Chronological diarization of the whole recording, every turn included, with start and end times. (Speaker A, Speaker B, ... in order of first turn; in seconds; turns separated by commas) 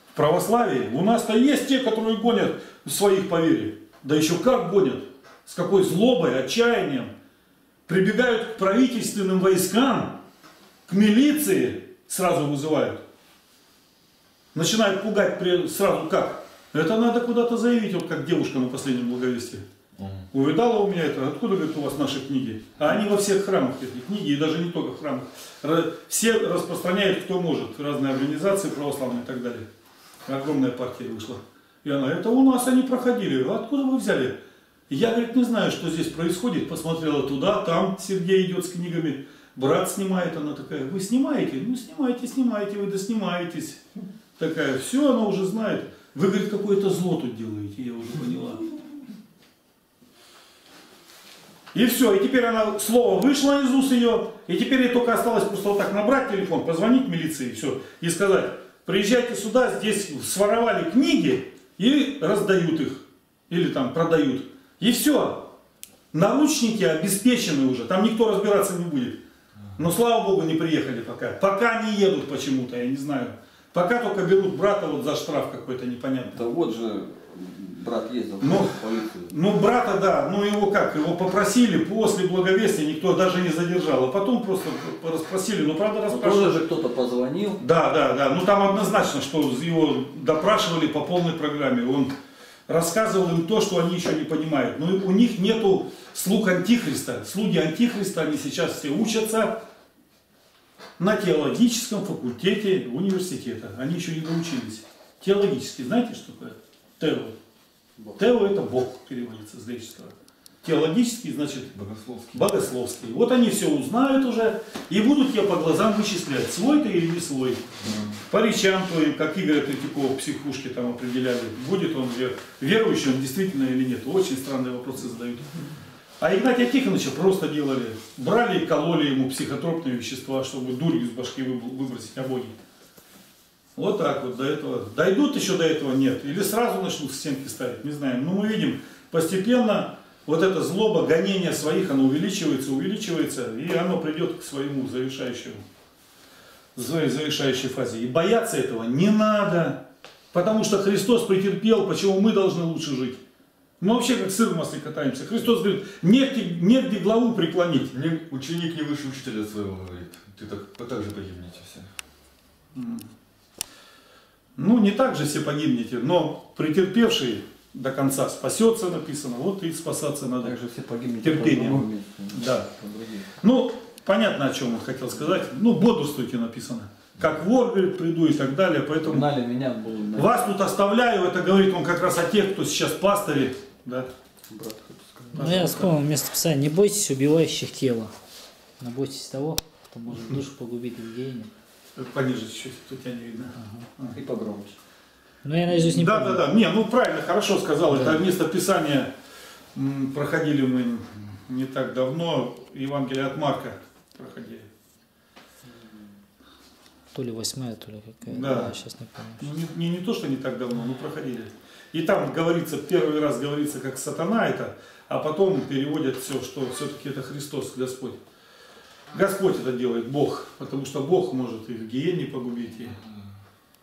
Speaker A: 0.1-7.1, Speaker A: 7.9-10.2, Speaker A: 10.9-13.0, Speaker A: 14.5-19.6, Speaker B: 20.0-20.3, Speaker A: 20.3-29.7, Speaker A: 30.3-34.4, Speaker A: 34.9-43.8, Speaker A: 44.4-48.7, Speaker A: 51.7-65.5, Speaker A: 66.1-69.2, Speaker A: 69.8-76.4, Speaker C: 76.3-79.3, Speaker A: 78.4-78.8, Speaker A: 79.3-86.7, Speaker C: 86.1-87.6, Speaker A: 87.6-92.1, Speaker A: 92.7-99.6, Speaker A: 101.0-107.4, Speaker A: 108.2-111.7, Speaker B: 111.7-112.5, Speaker A: 112.3-117.6, Speaker B: 117.8-118.1, Speaker A: 118.3-125.5, Speaker A: 126.2-132.6, Speaker A: 133.8-145.6, Speaker A: 146.8-153.2, Speaker A: 153.8-157.9, Speaker B: 157.8-161.9, Speaker A: 162.7-163.1, Speaker A: 164.6-170.6, Speaker C: 170.4-173.3, Speaker A: 171.2-172.7, Speaker A: 173.4-179.3, Speaker C: 179.0-180.5, Speaker A: 180.2-184.1, Speaker C: 184.5-185.7, Speaker A: 185.3-185.9, Speaker D: 185.4-188.1, Speaker D: 188.8-191.5, Speaker A: 192.0-194.2, Speaker D: 193.6-193.9, Speaker C: 194.1-194.8, Speaker D: 195.4-196.4, Speaker A: 195.7-199.1, Speaker A: 199.8-204.7, Speaker D: 207.1-209.4, Speaker A: 208.2-208.8, Speaker A: 209.4-218.2, Speaker A: 219.1-223.0